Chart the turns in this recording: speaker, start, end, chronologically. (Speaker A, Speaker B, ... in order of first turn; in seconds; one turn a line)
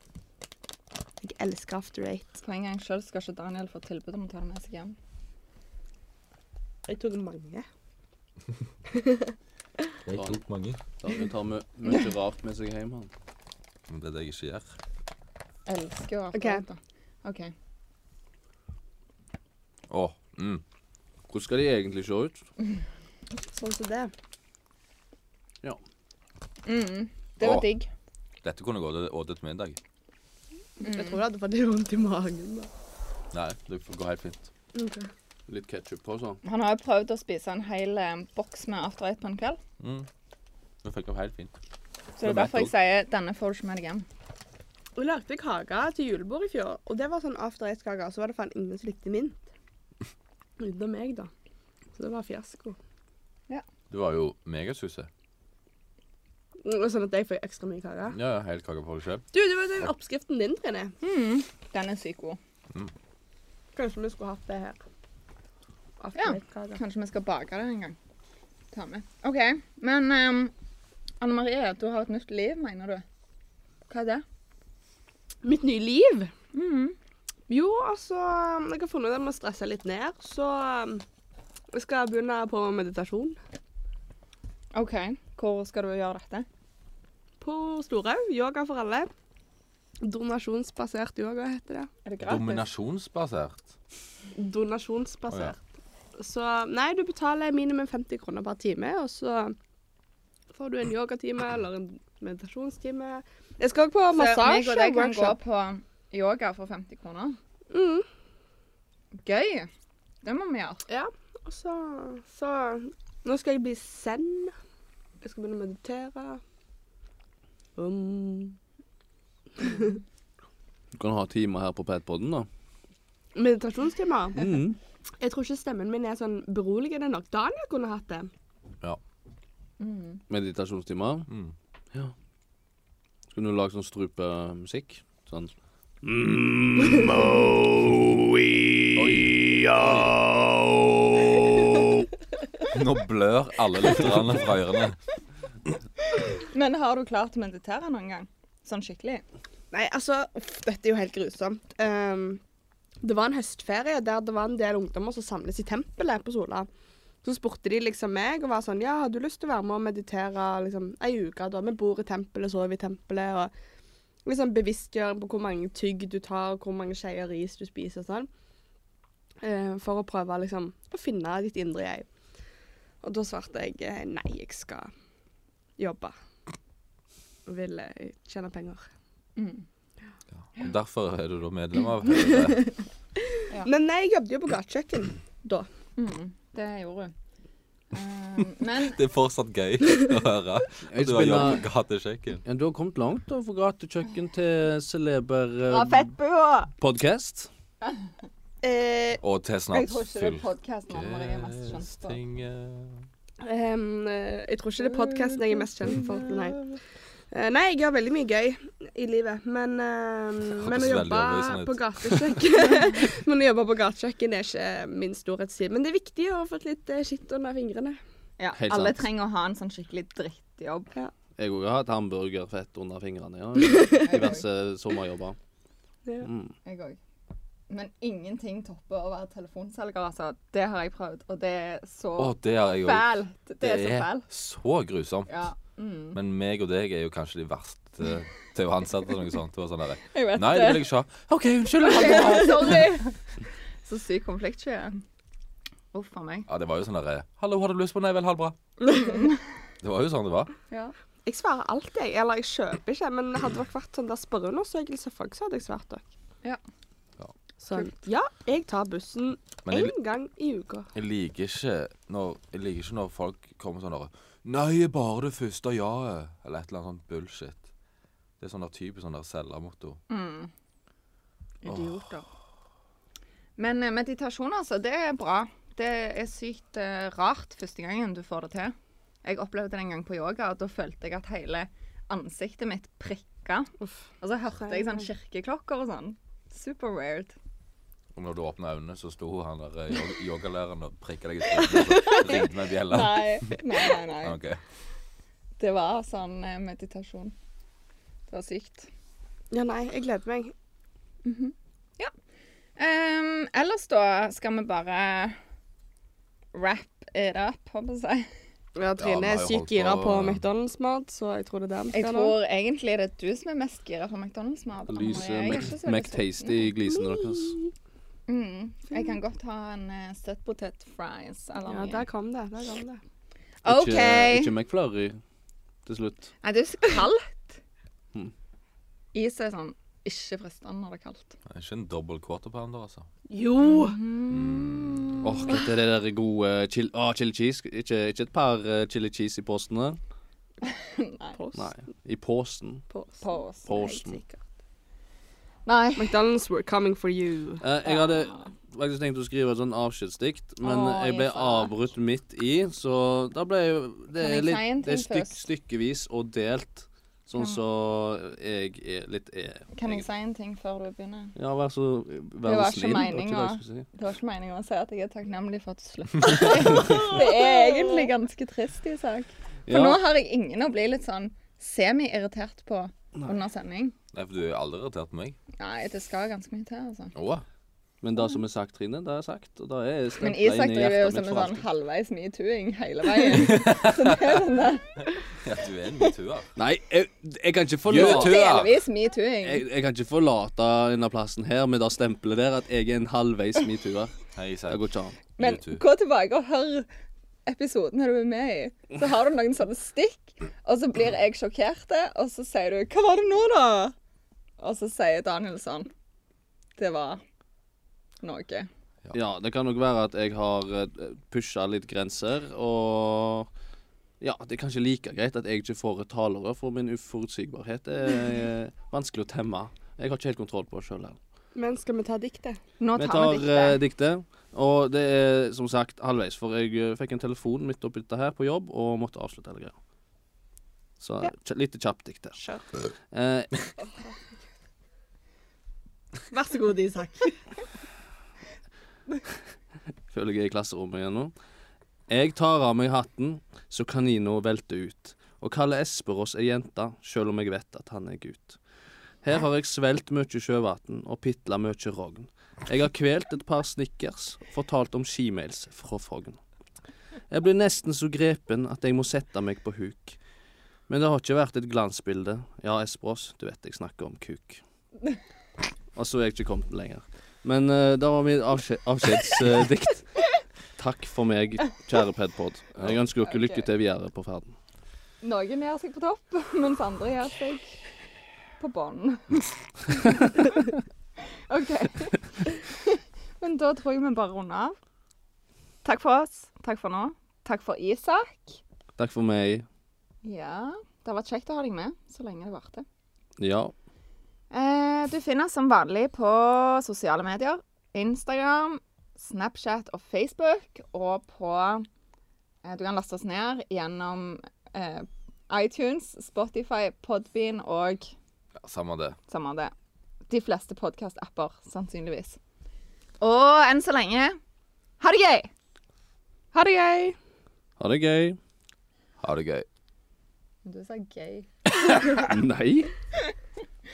Speaker A: 1.2-2.3
Speaker B: 2.4-5.0
Speaker A: 6.9-7.7
Speaker A: 8.9-9.3
Speaker C: 10.1-10.8
Speaker D: 10.1-10.4
Speaker D: 11.0-13.1
Speaker C: 13.9-14.8
Speaker B: 15.7-17.5
Speaker A: 16.3-16.6
Speaker C: 19.9-20.6
Speaker D: 21.3-22.4
Speaker A: 23.5-24.1
Speaker B: 26.6-27.9
Speaker C: 27.4-27.7
Speaker C: 28.4-29.8
Speaker A: 30.8-32.7
Speaker B: 30.8-31.2
Speaker C: 33.3-34.5
Speaker A: 34.7-35.1
Speaker D: 35.5-36.4
Speaker B: 36.4-39.6
Speaker C: 39.8-40.1
Speaker C: 40.8-41.5
Speaker B: 42.2-44.0
Speaker C: 42.2-42.7
Speaker A: 45.0-49.5
Speaker A: 50.6-51.3
Speaker A: 52.0-52.8
Speaker C: 53.9-55.1
Speaker A: 56.6-58.2
Speaker C: 58.1-59.3
Speaker A: 59.3-60.9
Speaker B: 61.0-62.4
Speaker A: 63.8-64.8
Speaker A: 66.0-66.8
Speaker B: 66.2-68.0
Speaker B: 68.7-70.5
Speaker B: 71.2-73.0
Speaker B: 73.9-74.2
Speaker A: 75.4-76.3
Speaker B: 76.5-77.0
Speaker A: 77.5-81.0
Speaker A: 81.7-83.4
Speaker B: 84.7-86.5
Speaker A: 87.4-89.1
Speaker A: 90.0-91.9
Speaker B: 92.0-92.6
Speaker C: 92.2-93.7
Speaker A: 94.4-95.6
Speaker C: 95.3-95.5
Speaker A: 96.2-99.6
Speaker A: 100.5-105.4
Speaker B: 104.1-107.4
Speaker A: 107.7-108.1
Speaker B: 109.2-109.7
Speaker B: 110.2-110.8
Speaker A: 110.9-114.5
Speaker A: 115.2-116.4
Speaker A: 117.8-118.6
Speaker A: 119.6-120.0
Speaker D: 120.9-122.5
Speaker A: 123.3-124.5
Speaker D: 124.4-124.8
Speaker A: 125.2-128.3
Speaker B: 129.8-130.2
Speaker D: 130.3-131.3
Speaker D: 133.3-142.1
Speaker C: 139.0-140.2
Speaker C: 142.6-145.0
Speaker B: 146.2-149.2
Speaker A: 149.7-152.4
Speaker A: 153.0-156.7
Speaker A: 157.2-163.5
Speaker A: 164.2-168.3
Speaker A: 169.4-172.1
Speaker A: 173.0-174.9
Speaker A: 175.8-176.1
Speaker A: 177.5-178.9
Speaker B: 179.4-179.7
Speaker C: 180.3-182.8
Speaker A: 183.2-185.7
Speaker B: 186.0-187.1
Speaker B: 187.9-189.0
Speaker C: 188.6-192.4
Speaker D: 190.9-191.7
Speaker D: 192.5-196.1
Speaker B: 195.7-196.7
Speaker D: 196.8-197.5
Speaker A: 198.6-199.2
Speaker C: 199.2-203.1
Speaker B: 199.7-202.2
Speaker A: 203.4-206.8
Speaker B: 204.8-206.0
Speaker A: 207.3-218.0
Speaker C: 210.6-212.4
Speaker B: 218.4-220.9
Speaker D: 218.6-219.1
Speaker D: 221.4-225.4
Speaker A: 223.7-224.1
Speaker B: 224.1-224.4
Speaker D: 226.2-226.5
Speaker B: 226.7-227.0
Speaker B: 227.7-234.3
Speaker C: 232.2-235.3
Speaker B: 235.3-236.2
Speaker C: 236.1-242.9
Speaker B: 240.1-240.8
Speaker B: 241.8-243.2
Speaker B: 243.8-245.0
Speaker B: 245.9-246.5
Speaker C: 246.5-248.6
Speaker A: 248.8-249.3
Speaker B: 248.9-249.4
Speaker C: 249.8-250.5
Speaker A: 251.3-256.1
Speaker A: 257.6-260.9
Speaker C: 259.7-259.9
Speaker C: 260.9-267.6
Speaker C: 268.4-270.0
Speaker B: 270.1-270.5
Speaker A: 271.6-272.2
Speaker C: 271.7-272.0
Speaker B: 271.7-272.1
Speaker B: 273.6-287.4
Speaker A: 284.6-285.1
Speaker C: 288.1-293.6
Speaker B: 292.0-294.4
Speaker C: 294.2-294.6
Speaker B: 295.6-297.4
Speaker B: 298.3-298.9
Speaker A: 299.5-300.5
Speaker B: 301.2-302.1
Speaker B: 302.8-305.4
Speaker B: 306.5-308.3
Speaker A: 308.8-312.4
Speaker C: 309.0-310.4
Speaker B: 311.9-316.6
Speaker D: 314.9-317.6
Speaker A: 316.9-317.7
Speaker B: 318.3-322.1
Speaker A: 321.7-323.0
Speaker B: 323.6-324.5
Speaker D: 323.6-325.2
Speaker D: 325.9-326.3
Speaker B: 326.4-327.6
Speaker B: 329.1-331.4
Speaker C: 331.5-333.1
Speaker A: 333.3-334.0
Speaker B: 333.6-334.8
Speaker C: 334.3-335.3
Speaker D: 335.2-340.0
Speaker B: 340.7-341.4
Speaker A: 341.4-341.7
Speaker D: 341.6-342.9
Speaker A: 342.9-344.4
Speaker B: 343.2-344.0
Speaker D: 343.6-344.2
Speaker B: 345.7-346.2
Speaker A: 346.0-347.6
Speaker D: 347.6-360.1
Speaker B: 347.9-348.5
Speaker B: 350.6-351.7
Speaker B: 354.2-355.4
Speaker B: 359.7-361.4
Speaker D: 361.4-363.9
Speaker B: 362.4-373.9
Speaker A: 366.9-368.1
Speaker D: 369.7-370.0
Speaker C: 374.1-375.4
Speaker B: 375.6-377.1
Speaker C: 377.1-377.4
Speaker D: 378.0-381.6
Speaker B: 380.2-385.1
Speaker C: 383.3-384.4
Speaker C: 385.4-386.5
Speaker D: 386.6-388.6
Speaker C: 387.9-388.7
Speaker B: 387.9-389.6
Speaker D: 389.4-395.2
Speaker C: 394.3-395.8
Speaker B: 395.4-396.9
Speaker B: 397.5-403.9
Speaker B: 404.6-405.9
Speaker B: 406.8-407.2
Speaker B: 408.2-408.7
Speaker D: 409.1-413.5
Speaker D: 414.2-421.2
Speaker A: 421.6-422.6
Speaker B: 422.8-423.8
Speaker D: 423.0-429.8
Speaker D: 431.0-432.4
Speaker A: 432.4-432.6
Speaker D: 433.1-433.7
Speaker A: 436.3-437.4
Speaker D: 440.1-441.3
Speaker D: 442.1-448.6
Speaker D: 449.2-456.4
Speaker D: 457.3-460.2
Speaker D: 460.9-464.6
Speaker D: 465.9-470.2
Speaker D: 470.8-474.5
Speaker B: 473.3-473.7
Speaker B: 475.2-477.9
Speaker B: 478.6-480.7
Speaker B: 481.5-484.8
Speaker B: 485.8-488.6
Speaker D: 489.0-489.7
Speaker B: 490.2-492.9
Speaker D: 493.4-493.7
Speaker B: 494.5-501.9
Speaker B: 502.6-508.1
Speaker C: 508.6-509.2
Speaker B: 509.3-509.7
Speaker B: 510.3-512.4
Speaker B: 513.2-514.4
Speaker B: 515.0-515.5
Speaker A: 516.5-517.2
Speaker D: 517.8-518.4
Speaker C: 519.2-519.7
Speaker B: 520.6-521.5
Speaker D: 522.1-522.9